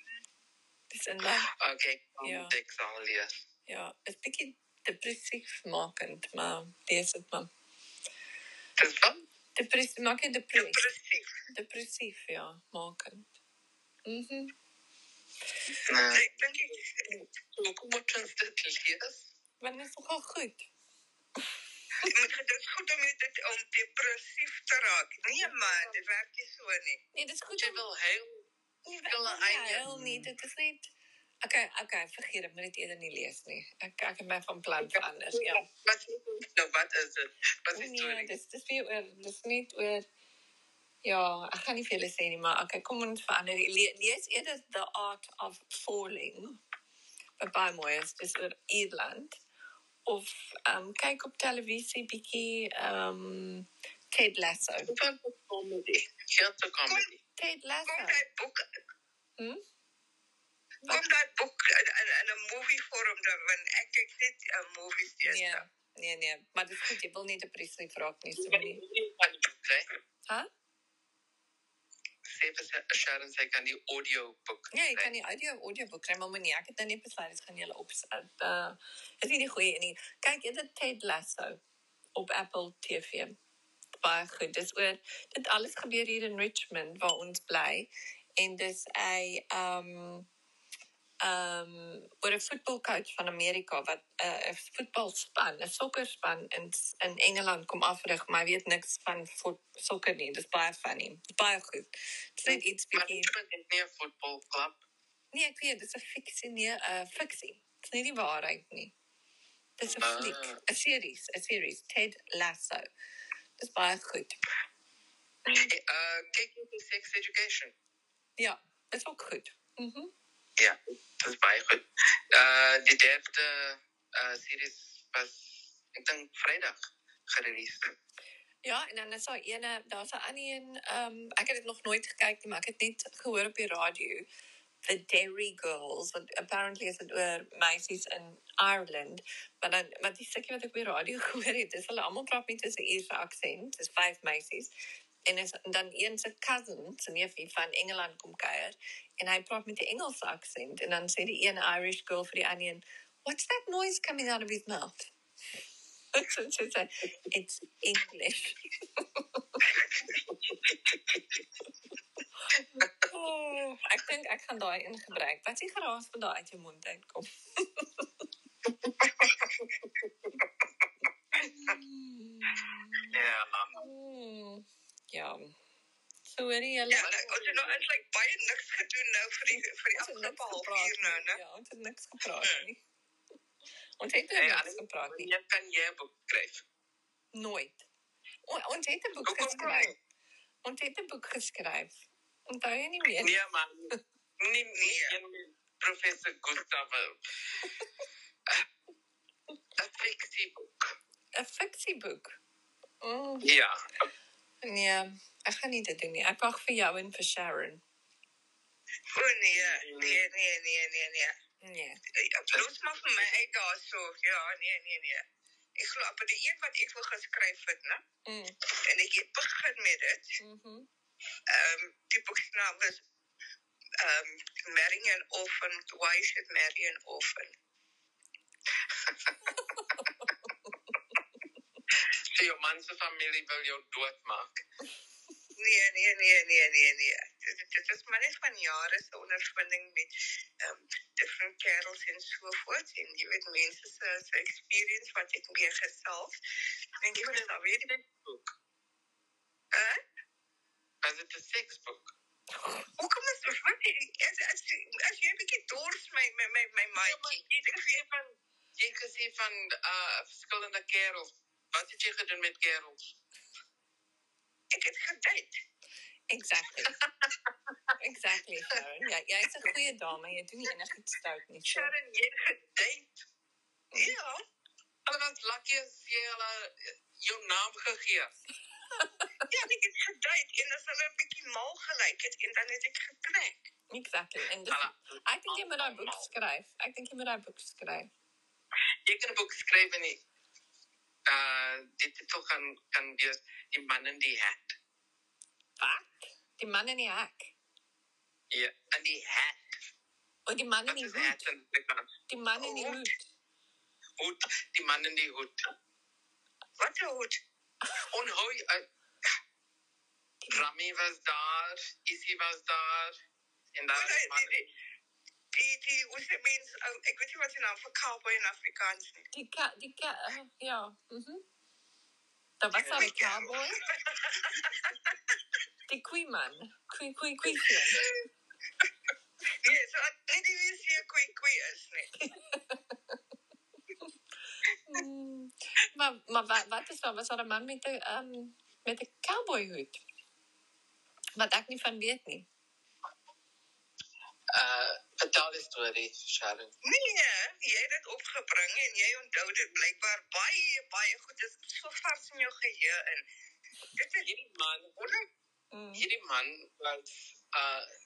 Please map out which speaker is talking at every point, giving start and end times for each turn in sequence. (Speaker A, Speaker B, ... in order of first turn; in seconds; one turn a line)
Speaker A: 0.9-1.5
Speaker B: 1.2-3.5
Speaker A: 2.2-2.5
Speaker A: 3.7-7.5
Speaker B: 8.8-9.2
Speaker A: 9.6-10.8
Speaker C: 10.5-11.3
Speaker A: 11.5-13.3
Speaker A: 14.1-14.5
Speaker B: 15.8-19.3
Speaker C: 16.1-17.1
Speaker A: 19.6-20.7
Speaker C: 22.0-27.0
Speaker A: 27.1-27.8
Speaker B: 27.6-30.3
Speaker A: 28.9-30.9
Speaker A: 31.4-35.6
Speaker B: 34.8-38.3
Speaker A: 37.7-40.0
Speaker A: 41.0-46.6
Speaker A: 47.4-49.4
Speaker A: 50.0-54.9
Speaker B: 54.9-57.2
Speaker A: 57.4-58.2
Speaker C: 57.9-58.6
Speaker C: 60.9-65.6
Speaker A: 65.2-68.8
Speaker B: 68.3-69.8
Speaker B: 72.2-75.1
Speaker A: 74.7-81.6
Speaker A: 82.2-83.3
Speaker A: 84.0-90.2
Speaker A: 91.2-103.3
Speaker B: 102.5-104.8
Speaker A: 105.3-108.9
Speaker A: 109.8-112.8
Speaker B: 109.9-110.6
Speaker A: 113.6-114.4
Speaker A: 115.4-115.7
Speaker B: 115.6-117.7
Speaker A: 118.4-120.1
Speaker B: 120.6-127.8
Speaker A: 128.6-134.2
Speaker A: 134.8-144.7
Speaker A: 145.2-155.1
Speaker A: 156.1-159.6
Speaker B: 160.1-160.7
Speaker A: 162.5-168.1
Speaker B: 168.8-170.7
Speaker A: 171.3-173.1
Speaker B: 171.4-171.8
Speaker B: 173.1-173.9
Speaker A: 173.7-175.5
Speaker A: 176.2-177.1
Speaker C: 176.9-181.4
Speaker B: 176.9-177.8
Speaker A: 179.5-182.8
Speaker A: 184.0-185.3
Speaker B: 184.3-186.6
Speaker A: 187.3-187.8
Speaker A: 188.4-189.9
Speaker B: 189.2-189.9
Speaker A: 190.6-193.4
Speaker B: 193.2-197.7
Speaker C: 194.8-195.2
Speaker B: 199.8-200.9
Speaker A: 201.3-202.4
Speaker A: 203.0-203.5
Speaker B: 203.4-204.1
Speaker A: 204.6-207.8
Speaker C: 209.1-211.3
Speaker B: 209.5-210.3
Speaker A: 211.6-212.0
Speaker C: 212.1-215.2
Speaker B: 212.5-213.5
Speaker C: 215.8-218.0
Speaker A: 218.2-218.6
Speaker C: 218.8-220.4
Speaker A: 220.4-220.9
Speaker C: 221.5-223.0
Speaker C: 224.0-227.5
Speaker A: 229.8-230.7
Speaker B: 231.9-234.6
Speaker C: 235.5-246.4
Speaker C: 247.0-247.8
Speaker B: 247.1-248.5
Speaker C: 249.7-250.0
Speaker B: 251.0-252.1
Speaker A: 252.5-252.9
Speaker C: 253.0-258.0
Speaker B: 256.9-263.1
Speaker C: 264.7-265.6
Speaker A: 266.3-266.9
Speaker B: 266.9-267.9
Speaker A: 268.0-271.9
Speaker B: 271.7-273.2
Speaker A: 273.9-274.2
Speaker C: 273.9-274.4
Speaker B: 275.1-278.3
Speaker A: 278.9-279.5
Speaker C: 279.5-283.6
Speaker A: 283.9-288.1
Speaker B: 284.7-286.3
Speaker B: 289.1-290.2
Speaker B: 291.3-294.8
Speaker A: 295.8-297.5
Speaker B: 298.5-299.8
Speaker A: 300.5-301.5
Speaker B: 300.9-302.1
Speaker A: 302.3-303.3
Speaker C: 302.6-303.0
Speaker B: 304.2-305.6
Speaker C: 306.8-307.4
Speaker B: 308.1-308.8
Speaker B: 310.5-313.1
Speaker B: 313.7-314.6
Speaker C: 313.9-314.7
Speaker C: 315.5-319.2
Speaker A: 319.3-321.4
Speaker A: 322.6-323.8
Speaker B: 322.8-323.2
Speaker C: 322.8-324.9
Speaker A: 325.9-328.1
Speaker C: 327.9-328.2
Speaker C: 329.6-332.1
Speaker A: 332.1-333.2
Speaker A: 334.9-340.0
Speaker A: 341.4-342.5
Speaker B: 344.5-346.7
Speaker C: 346.8-353.2
Speaker C: 353.9-354.3
Speaker B: 354.2-355.0
Speaker C: 355.0-355.2
Speaker A: 355.7-356.1
Speaker B: 355.9-357.9